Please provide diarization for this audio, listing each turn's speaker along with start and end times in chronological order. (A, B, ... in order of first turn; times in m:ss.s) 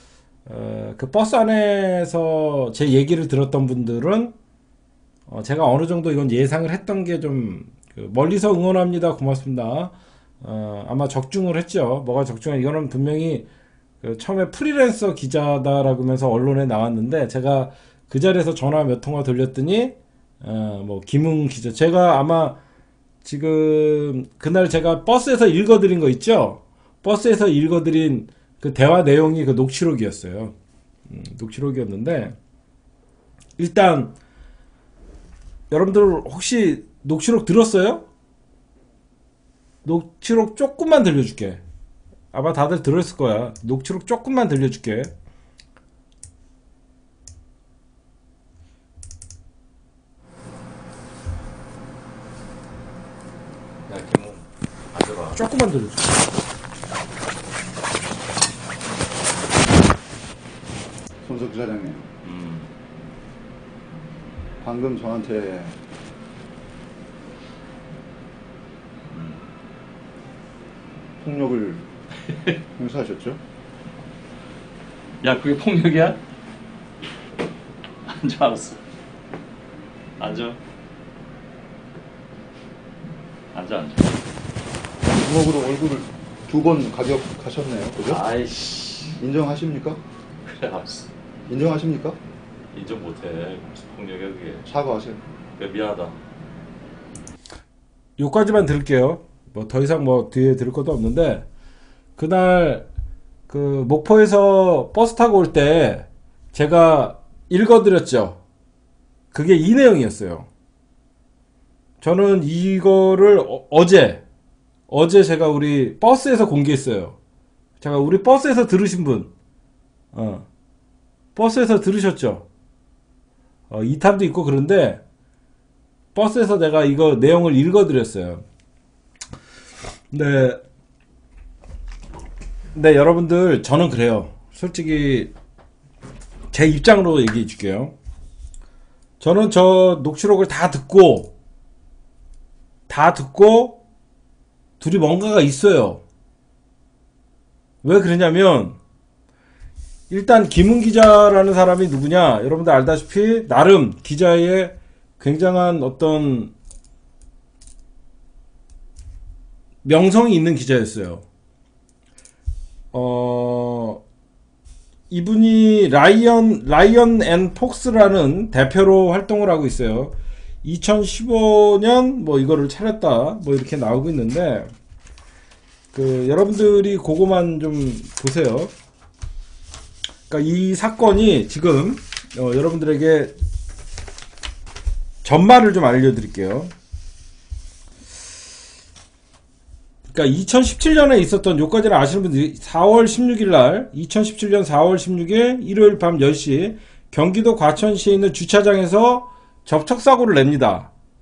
0:00.4-0:04.3 A
0:05.3-0:13.5 A
0:14.0-0:22.6 A
0:23.2-0:30.5 A
0:31.1-0:32.4 A
0:33.6-0:34.1 A
0:35.7-0:38.0 A
0:39.8-0:41.6 A
0:42.3-0:45.1 A
0:53.9-0:55.4 B
0:55.3-0:56.2 A
1:01.2-1:02.1 C
1:02.2-1:02.7 B
1:04.6-1:05.8 C
1:09.1-1:09.4 B
1:11.2-1:11.9 C
1:12.3-1:12.6 B
1:12.7-1:13.4 C
1:15.2-1:16.2 B
1:18.0-1:18.8 B
1:20.2-1:20.6 B
1:23.5-1:24.2 B
1:25.0-1:28.2 C
1:28.0-1:29.2 B
1:29.2-1:30.0 C
1:30.4-1:31.1 B
1:31.5-1:32.2 C
1:32.7-1:34.7 B
1:34.6-1:35.2 C
1:35.6-1:36.2 B
1:38.2-1:41.4 A
1:42.2-1:42.8 A
1:43.5-1:48.4 A
1:49.3-1:50.5 A
1:52.0-1:54.2 A
1:54.9-1:57.2 A
1:57.8-1:59.3 A
2:00.1-2:00.5 A
2:01.3-2:02.4 A
2:03.7-2:05.0 A
2:06.1-2:08.4 A
2:10.1-2:10.6 A
2:12.7-2:15.3 A
2:16.5-2:17.9 A
2:19.2-2:21.3 A
2:22.9-2:23.8 A
2:24.8-2:26.0 A
2:27.8-2:28.8 A
2:30.1-2:36.5 A
2:39.8-2:41.2 A
2:42.9-2:44.0 A
2:45.1-2:54.7 A
2:55.9-2:58.7 A
3:00.3-3:03.3 A
3:05.2-3:06.7 A
3:10.1-3:20.9 A